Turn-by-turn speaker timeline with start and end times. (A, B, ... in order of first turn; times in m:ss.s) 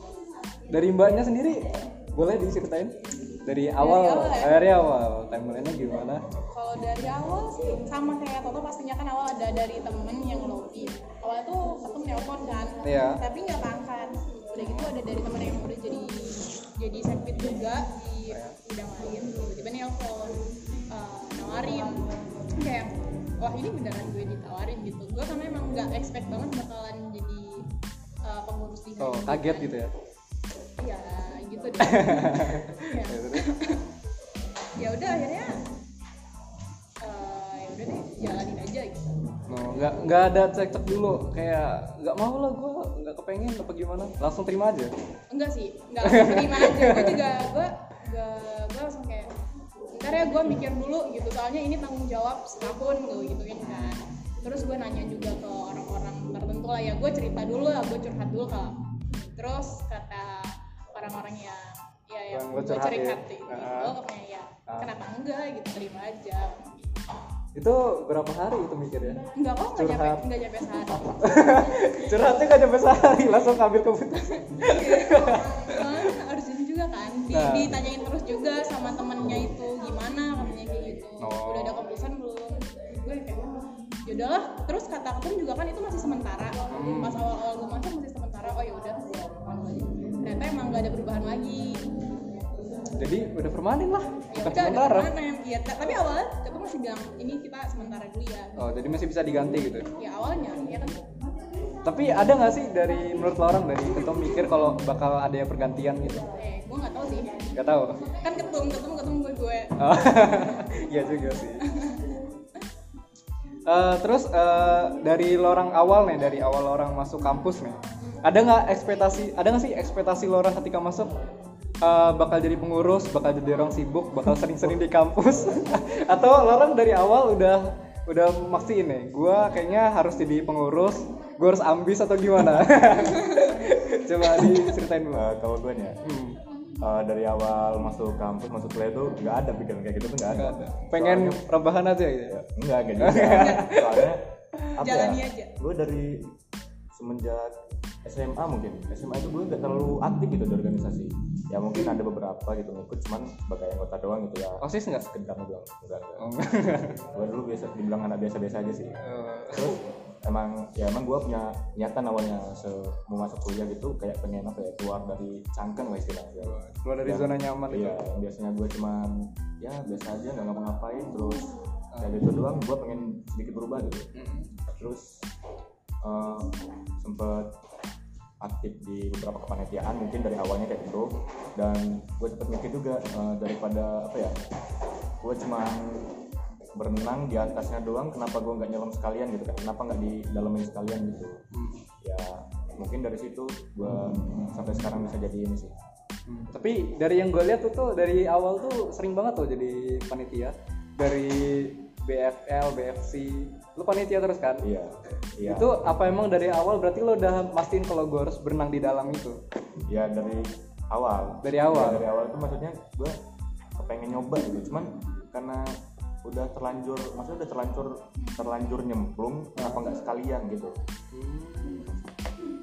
0:00.7-0:06.2 A
0:03.8-0:04.6 B
0:06.5-0:27.6 B
0:12.8-0:13.2 A
0:14.6-0:14.9 A
0:18.3-0:18.6 A
0:28.2-0:29.8 B
0:29.0-0:29.9 A
0:30.8-0:33.8 B
0:31.8-0:33.5 A
0:34.8-0:35.5 B
0:37.0-0:39.1 B
0:39.5-0:44.9 A
0:45.3-0:49.3 B
0:46.0-0:47.2 A
0:49.9-0:58.8 B
0:53.6-0:54.0 A
0:59.4-1:06.8 B
1:02.3-1:03.9 A
1:04.7-1:04.9 A
1:07.5-1:09.2 A
1:09.3-1:11.3 B
1:09.7-1:10.2 A
1:11.0-1:15.8 A
1:14.6-1:31.8 B
1:17.3-1:17.8 A
1:21.2-1:21.8 A
1:26.7-1:27.2 A
1:33.0-1:35.1 A
1:34.3-1:38.7 B
1:38.6-1:39.9 A
1:40.0-1:41.0 B
1:41.8-1:46.3 A
1:46.3-1:47.4 B
1:47.5-1:48.0 A
1:48.0-1:50.4 B
1:49.8-1:51.6 A
1:51.7-1:52.0 B
1:53.6-2:01.1 A
2:01.8-2:15.2 A
2:15.1-2:16.0 C
2:16.0-2:16.4 A
2:16.8-2:21.5 C
2:20.3-2:22.4 A
2:22.3-2:26.3 C
2:23.0-2:24.0 A
2:23.3-2:23.8 B
2:24.8-2:25.5 B
2:26.9-2:36.3 C
2:34.6-2:35.0 A
2:36.2-2:37.0 A
2:37.0-2:39.0 C
2:39.0-2:39.8 A
2:39.5-2:54.1 C
2:46.4-2:48.0 A
2:51.9-2:52.2 A
2:54.1-2:54.5 A
2:54.7-2:55.2 C
2:56.0-2:57.6 C
2:58.4-3:04.4 C
3:05.2-3:06.1 C
3:06.8-3:11.4 C
3:11.5-3:11.8 A
3:12.0-3:15.7 C
3:16.3-3:24.6 A
3:24.6-3:25.8 C
3:25.4-3:29.4 A
3:29.9-3:33.2 C
3:31.4-3:32.1 A
3:33.8-3:40.8 C
3:39.6-3:39.8 A
3:41.1-3:41.9 A